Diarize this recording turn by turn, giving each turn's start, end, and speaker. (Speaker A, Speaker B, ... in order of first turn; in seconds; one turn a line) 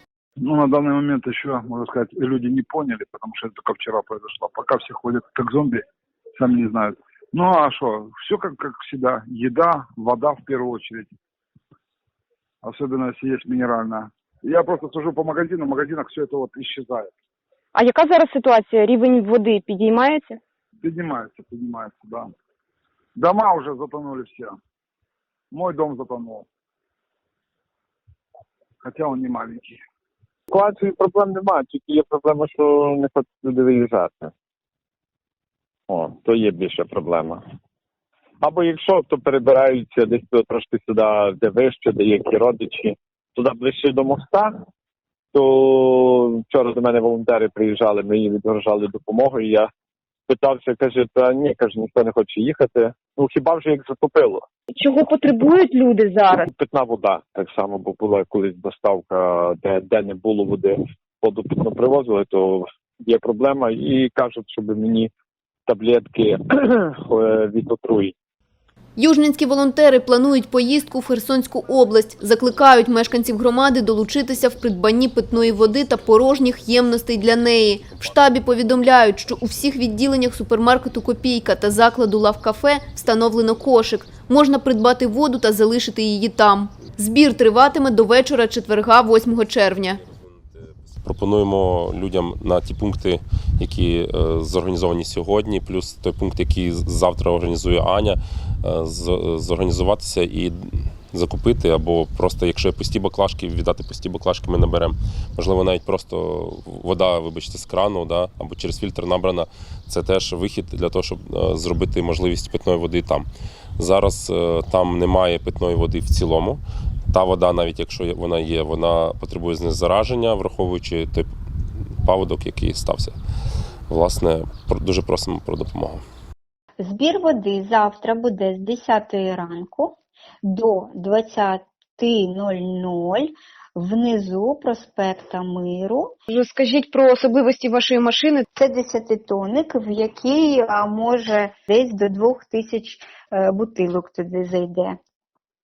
Speaker A: 0.4-5.8
Speaker A: 6.4-11.1
Speaker A: 12.6-17.1
Speaker B: 17.8-20.4
Speaker A: 20.8-22.3
Speaker A: 23.2-24.5
Speaker A: 25.5-26.4
Speaker A: 28.8-29.8
Speaker C: 30.5-34.3
Speaker C: 35.9-37.4
Speaker C: 38.4-44.5
Speaker C: 45.4-49.7
Speaker C: 50.3-54.5
Speaker B: 54.9-55.2
Speaker B: 55.7-56.3
Speaker C: 56.6-65.1
Speaker C: 65.7-68.1
Speaker D: 69.0-90.0
Speaker E: 91.0-100.5
Speaker E: 101.1-113.2
Speaker E: 113.8-116.6
Speaker E: 117.1-121.3
Speaker E: 122.0-123.1
Speaker E: 123.9-126.0
Speaker F: 126.8-136.2
Speaker F: 138.6-145.0